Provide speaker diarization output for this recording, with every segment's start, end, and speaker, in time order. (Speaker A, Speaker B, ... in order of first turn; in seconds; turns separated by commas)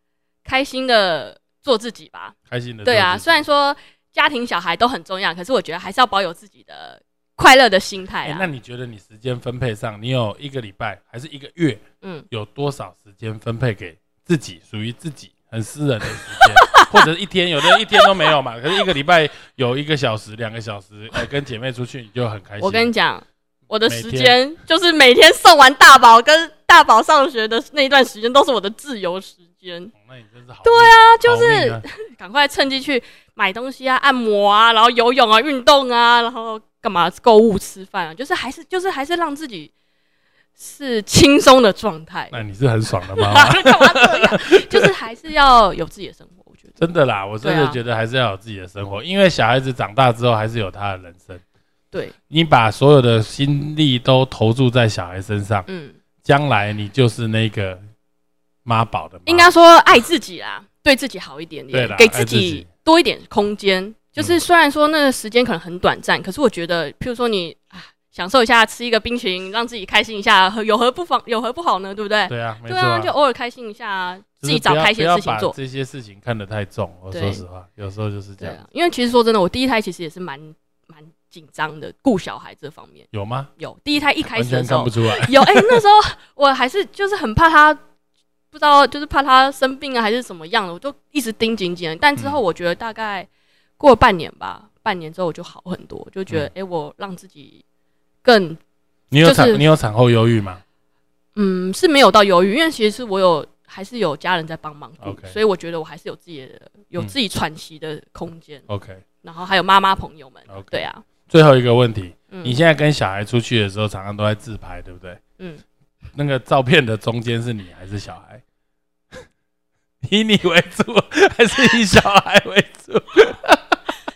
Speaker A: 0.5-8.5, Speaker B: 2.5-3.4, Speaker B: 8.2-22.9, Speaker A: 16.4-17.1, Speaker A: 22.6-29.9, Speaker B: 23.9-24.4, Speaker B: 29.9-31.8, Speaker A: 30.6-39.7, Speaker A: 40.6-42.4, Speaker B: 42.3-44.9, Speaker A: 43.2-46.8, Speaker B: 46.8-51.4, Speaker A: 47.4-47.8, Speaker B: 52.3-55.7, Speaker A: 55.7-56.0, Speaker B: 56.2-57.8, Speaker B: 58.6-59.5, Speaker A: 59.3-75.5, Speaker B: 61.7-62.7, Speaker B: 72.3-73.1, Speaker B: 74.4-78.6, Speaker A: 77.1-77.4, Speaker A: 78.4-83.1, Speaker B: 83.1-83.5, Speaker A: 83.6-87.8, Speaker B: 84.3-85.8, Speaker A: 88.5-93.3, Speaker A: 93.8-97.6, Speaker A: 98.2-98.6, Speaker B: 99.1-100.6, Speaker A: 99.2-99.6, Speaker A: 101.4-108.7, Speaker B: 105.0-105.4, Speaker B: 108.7-109.0, Speaker A: 109.2-111.0, Speaker B: 110.5-115.2, Speaker A: 112.3-112.6, Speaker B: 116.2-118.4, Speaker B: 120.0-123.8